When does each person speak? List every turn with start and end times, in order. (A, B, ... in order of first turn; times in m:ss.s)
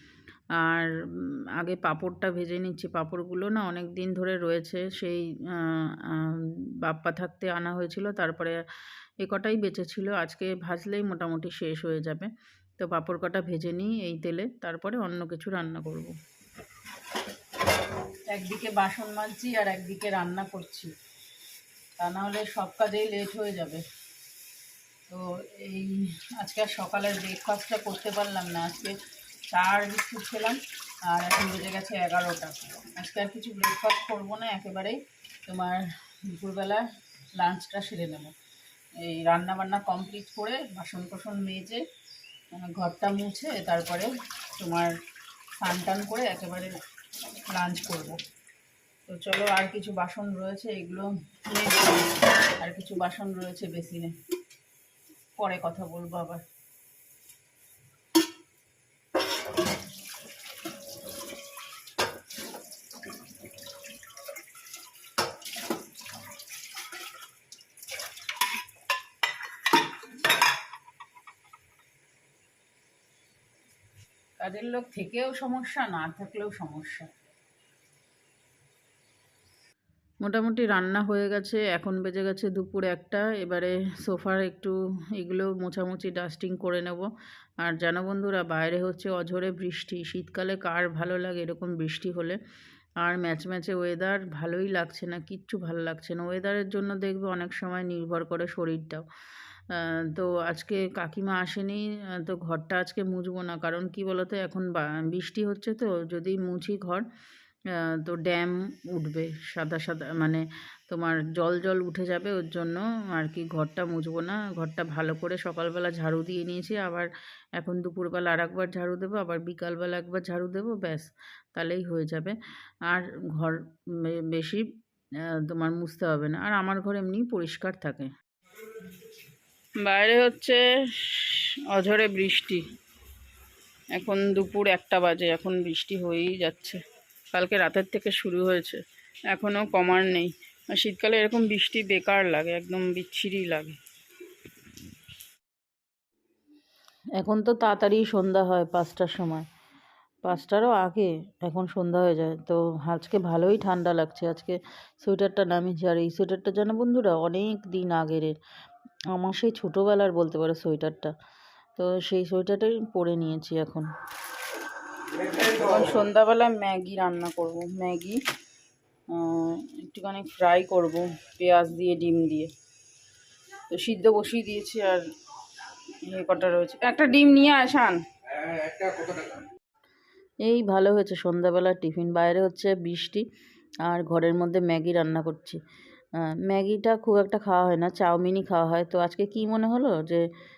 0:00.6-0:08.6 A
0:09.2-0:16.1 A
0:18.3-0:20.9 A
0:22.0-0:23.8 A
0:25.1-0:29.0 A
0:29.5-0:36.8 A
0:37.4-0:38.4 A
0:39.0-0:41.8 A
0:42.5-0:44.9 A
0:45.6-0:46.8 A
0:47.5-0:48.2 A
0:49.1-0:54.2 A
0:55.4-0:56.4 A
1:14.4-1:17.1 A
1:20.2-1:27.1 A
1:27.6-1:32.4 A
1:33.0-1:39.1 A
1:39.7-1:47.0 A
1:47.7-2:04.6 A
2:05.2-2:08.1 A
2:09.8-2:12.6 A
2:13.9-2:16.8 A
2:17.3-2:23.8 A
2:27.2-2:29.5 A
2:30.2-2:38.4 A
2:39.1-2:41.1 A
2:41.8-2:43.9 A
2:45.2-2:48.2 A
2:49.1-2:52.5 A
2:53.7-2:55.0 A
2:55.9-2:58.0 A
3:00.4-3:03.2 A
3:03.8-3:05.6 A
3:06.5-3:10.3 A